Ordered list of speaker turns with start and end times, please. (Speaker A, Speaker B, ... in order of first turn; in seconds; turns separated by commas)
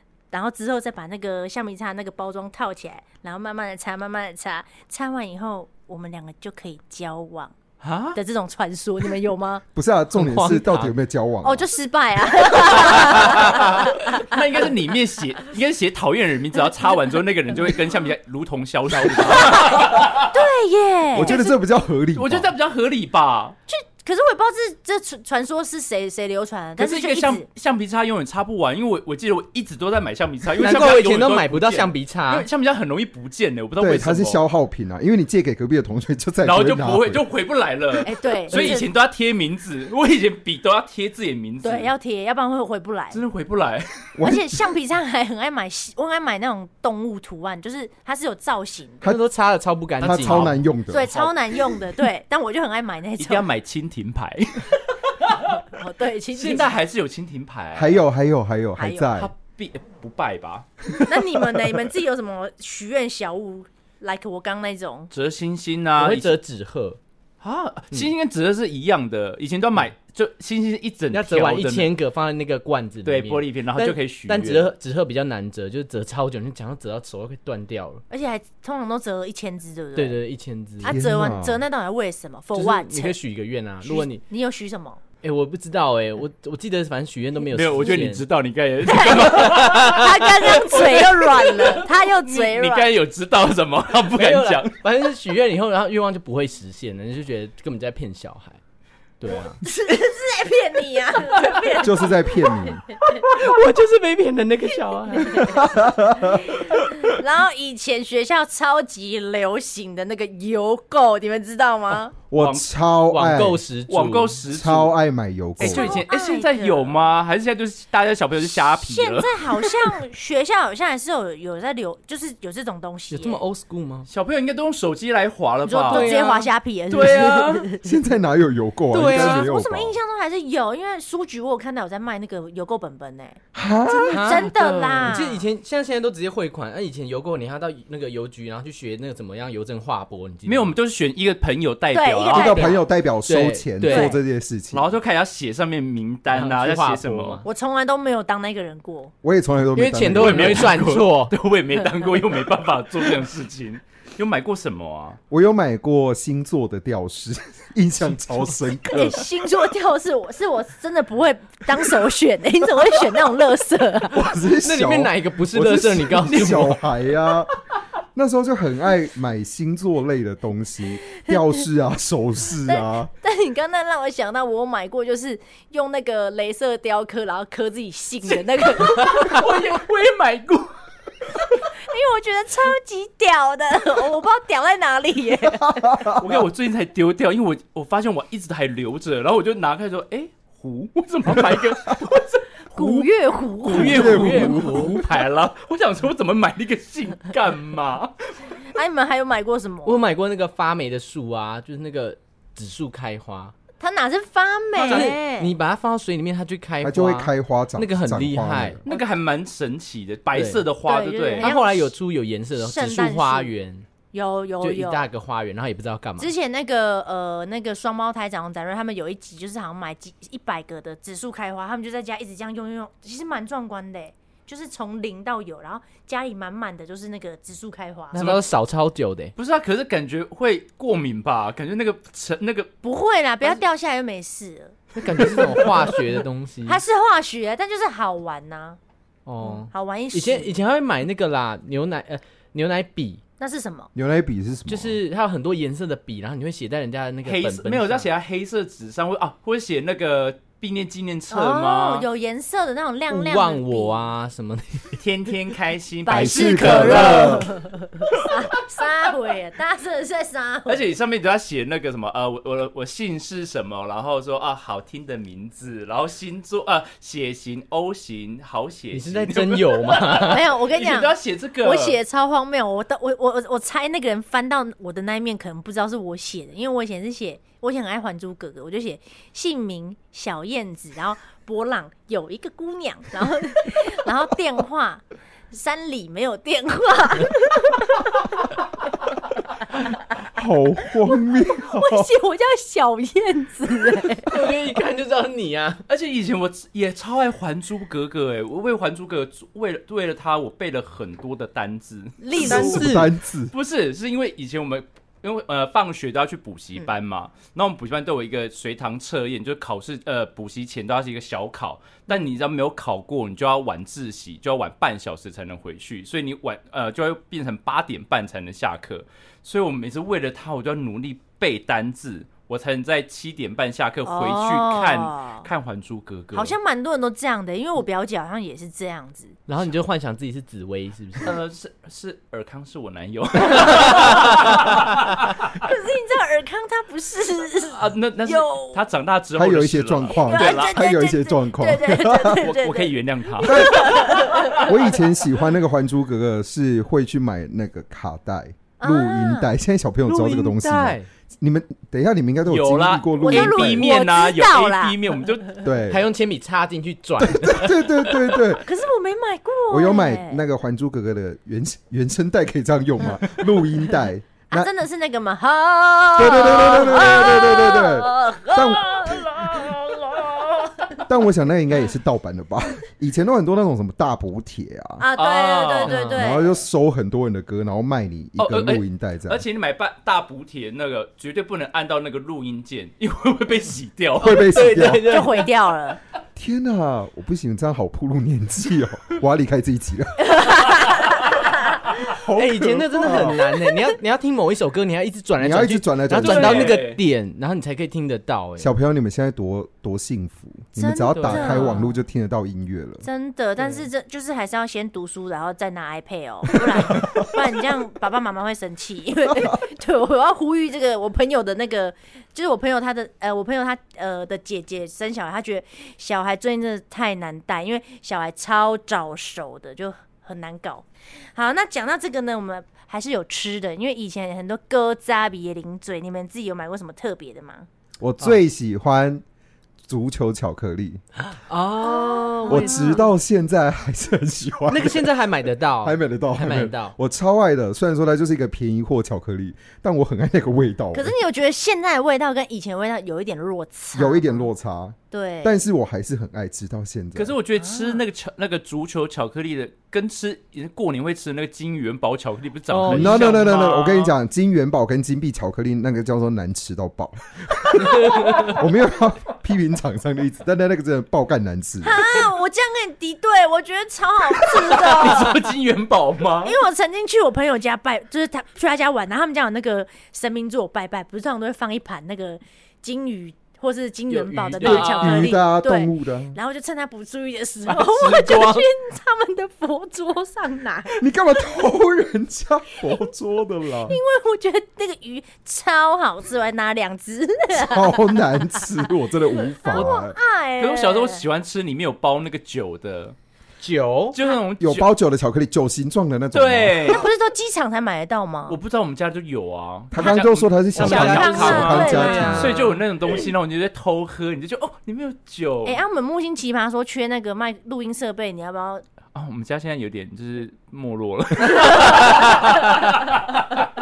Speaker A: 0.3-7.5, Speaker B: 7.8-8.2, Speaker A: 8.1-9.6, Speaker C: 9.7-11.7, Speaker D: 10.1-10.9, Speaker A: 11.4-14.4, Speaker B: 12.6-20.4, Speaker A: 19.3-21.5, Speaker C: 21.1-22.5, Speaker B: 22.1-23.6, Speaker A: 23.7-27.4, Speaker B: 26.8-34.4, Speaker D: 30.6-32.5, Speaker C: 33.8-37.2, Speaker B: 36.4-41.9, Speaker A: 38.0-38.9, Speaker A: 41.6-43.2, Speaker B: 43.1-44.1, Speaker C: 44.1-44.5, Speaker A: 44.2-49.0, Speaker D: 49.0-50.5, Speaker C: 50.0-51.1, Speaker B: 50.0-51.3, Speaker A: 50.9-53.5, Speaker B: 53.2-55.6, Speaker A: 55.6-56.8, Speaker B: 56.3-58.0, Speaker C: 57.7-59.3, Speaker A: 58.8-59.1, Speaker B: 59.1-60.9, Speaker A: 61.0-65.1, Speaker B: 65.1-66.3, Speaker D: 66.0-67.0, Speaker B: 67.4-71.9, Speaker D: 71.1-78.0, Speaker B: 73.0-74.7, Speaker A: 78.1-80.2, Speaker D: 79.9-81.0, Speaker A: 80.8-83.2, Speaker C: 80.8-81.6, Speaker D: 82.5-84.2, Speaker A: 83.8-85.0, Speaker D: 85.2-88.2, Speaker B: 87.5-94.8, Speaker A: 88.9-92.9, Speaker D: 94.1-98.6, Speaker D: 99.2-99.6, Speaker A: 99.6-102.5, Speaker B: 101.4-101.8, Speaker C: 101.8-102.8, Speaker D: 103.2-105.6, Speaker C: 105.4-106.4, Speaker A: 106.5-112.1, Speaker C: 112.3-113.6, Speaker B: 112.4-112.7, Speaker D: 113.1-114.4, Speaker B: 113.9-114.9, Speaker C: 114.5-116.0, Speaker B: 115.6-119.7, Speaker A: 115.6-117.0, Speaker A: 118.6-123.4, Speaker D: 123.1-124.1, Speaker B: 124.1-126.2, Speaker A: 125.7-127.9, Speaker D: 125.9-126.5, Speaker B: 126.9-127.7, Speaker C: 127.8-129.9, Speaker D: 128.9-129.4, Speaker A: 129.0-135.4, Speaker C: 133.5-134.5, Speaker D: 134.1-140.7, Speaker B: 140.4-142.7, Speaker A: 141.9-142.8, Speaker C: 142.3-144.9, Speaker D: 143.2-144.2, Speaker A: 143.8-144.2, Speaker B: 144.7-147.4, Speaker D: 146.3-147.4, Speaker A: 147.4-149.1, Speaker C: 149.2-150.8, Speaker D: 149.8-151.3, Speaker B: 150.1-155.2, Speaker C: 155.3-159.3, Speaker A: 158.9-164.2, Speaker C: 164.1-167.6, Speaker D: 164.6-166.8, Speaker C: 168.1-173.1, Speaker A: 172.7-179.5, Speaker B: 178.3-180.8, Speaker A: 181.8-186.1, Speaker C: 185.6-186.2, Speaker B: 186.1-193.1, Speaker A: 192.8-194.1, Speaker B: 193.6-198.5, Speaker D: 193.7-195.0, Speaker C: 193.8-195.0, Speaker A: 198.7-200.0, Speaker D: 199.8-203.5, Speaker A: 203.8-205.5, Speaker D: 204.8-208.8, Speaker B: 204.8-205.1, Speaker C: 206.8-208.8, Speaker B: 208.8-211.5, Speaker D: 210.3-210.7, Speaker A: 210.8-211.9, Speaker D: 211.4-213.9, Speaker A: 212.6-213.5, Speaker A: 214.1-215.1, Speaker D: 214.6-216.3, Speaker A: 216.2-228.3, Speaker D: 228.1-229.3, Speaker B: 228.1-228.4, Speaker B: 229.3-232.7, Speaker A: 232.8-234.8, Speaker D: 235.0-236.8, Speaker A: 236.7-238.8, Speaker D: 239.2-243.2, Speaker A: 239.4-240.5, Speaker A: 243.4-243.9, Speaker C: 243.9-245.0, Speaker D: 244.7-248.1, Speaker B: 247.2-252.1, Speaker A: 251.3-254.0, Speaker D: 253.1-255.0, Speaker B: 255.0-257.5, Speaker A: 256.0-260.8, Speaker C: 256.1-257.5, Speaker B: 260.7-272.0, Speaker D: 268.9-270.4, Speaker A: 270.2-288.2, Speaker C: 290.3-292.1, Speaker A: 291.5-294.3, Speaker D: 294.2-295.8, Speaker B: 295.9-302.9, Speaker A: 302.2-302.9, Speaker C: 302.3-303.5, Speaker D: 302.4-303.1, Speaker B: 303.5-326.5, Speaker A: 324.0-325.5, Speaker A: 326.3-329.4, Speaker D: 329.5-331.4, Speaker B: 331.2-335.5, Speaker A: 335.6-338.8, Speaker B: 337.7-340.7, Speaker C: 339.3-342.5, Speaker A: 340.2-344.8, Speaker B: 342.3-344.7, Speaker C: 343.4-353.9, Speaker A: 348.8-349.5, Speaker D: 350.1-351.1, Speaker B: 352.5-355.6, Speaker A: 353.2-355.0, Speaker C: 355.6-356.0, Speaker D: 355.9-358.3, Speaker C: 357.2-358.6, Speaker A: 358.6-360.4, Speaker C: 359.7-364.7, Speaker A: 364.5-370.0, Speaker C: 366.1-369.2, Speaker B: 369.0-370.5, Speaker C: 371.0-375.1, Speaker A: 375.0-376.6, Speaker B: 375.2-376.0, Speaker D: 375.9-376.3, Speaker C: 376.1-379.4, Speaker B: 378.4-384.6, Speaker C: 384.2-385.2, Speaker D: 384.2-385.5, Speaker A: 384.8-386.0, Speaker C: 386.4-390.4, Speaker A: 390.2-391.3, Speaker C: 392.0-393.4, Speaker D: 392.3-398.7, Speaker C: 395.4-396.8, Speaker B: 396.1-397.0, Speaker C: 398.6-403.1, Speaker A: 400.8-402.0, Speaker D: 401.1-401.8, Speaker A: 403.0-427.6, Speaker D: 403.6-403.9, Speaker C: 428.0-429.2, Speaker C: 429.9-431.0, Speaker D: 431.5-433.1, Speaker A: 431.8-433.1, Speaker C: 432.5-435.1, Speaker D: 434.7-436.9, Speaker C: 435.8-441.1, Speaker A: 440.9-444.5, Speaker C: 443.9-447.3, Speaker A: 445.1-445.6, Speaker B: 447.1-454.1, Speaker A: 447.6-448.0, Speaker D: 452.7-453.5, Speaker C: 452.9-462.2, Speaker D: 457.8-458.5, Speaker A: 458.2-458.5, Speaker A: 461.8-465.4, Speaker B: 464.5-466.6, Speaker A: 466.4-481.0, Speaker D: 474.1-475.0, Speaker B: 474.6-475.3, Speaker C: 474.7-476.4, Speaker D: 477.7-478.7, Speaker C: 481.0-484.0, Speaker A: 483.8-488.6, Speaker C: 487.5-490.2, Speaker A: 489.4-491.2, Speaker B: 490.6-493.1, Speaker D: 493.6-494.2, Speaker B: 494.1-494.9, Speaker C: 494.6-497.0, Speaker B: 496.3-497.1, Speaker A: 496.9-498.6, Speaker B: 498.5-505.8, Speaker C: 499.9-502.6, Speaker D: 500.8-502.8, Speaker A: 500.8-502.5, Speaker A: 505.6-508.8, Speaker B: 509.1-513.6